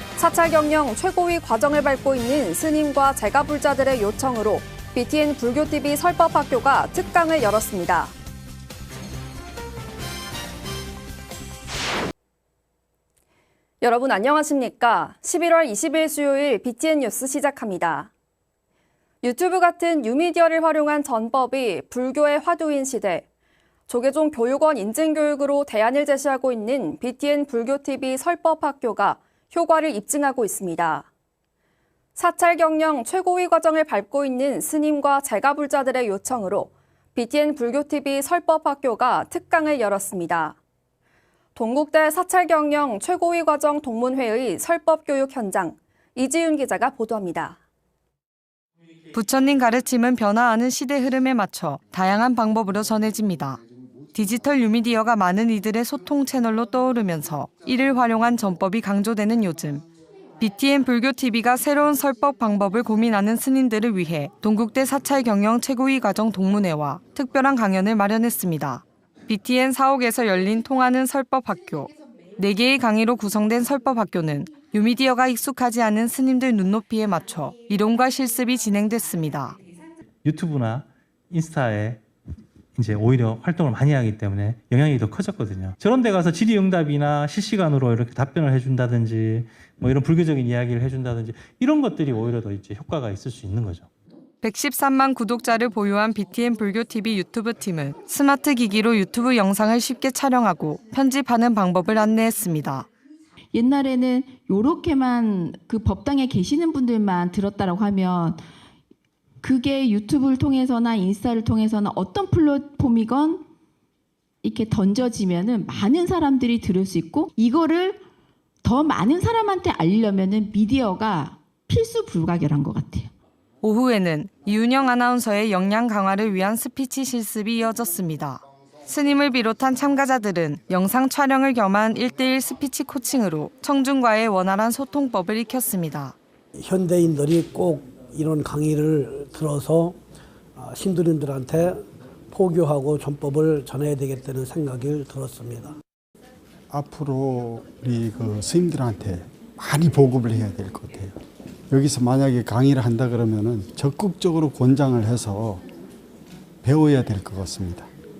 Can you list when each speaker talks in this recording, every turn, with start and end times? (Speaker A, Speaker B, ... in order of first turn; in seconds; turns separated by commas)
Speaker A: 0.2-8.1, Speaker A: 13.8-18.1, Speaker A: 19.2-23.2, Speaker A: 23.9-31.1, Speaker A: 32.2-40.6, Speaker A: 41.5-47.6, Speaker B: 49.1-53.6, Speaker B: 54.1-59.8, Speaker B: 60.4-79.6, Speaker C: 80.2-82.0, Speaker C: 82.8-93.9, Speaker B: 94.4-102.9, Speaker D: 103.5-108.4, Speaker D: 109.4-113.4, Speaker D: 114.4-118.0, Speaker D: 118.6-123.1, Speaker B: 123.6-136.2, Speaker E: 136.8-140.0, Speaker E: 140.6-141.8, Speaker E: 142.3-145.7, Speaker F: 146.7-151.2, Speaker F: 151.7-155.6, Speaker F: 156.6-157.9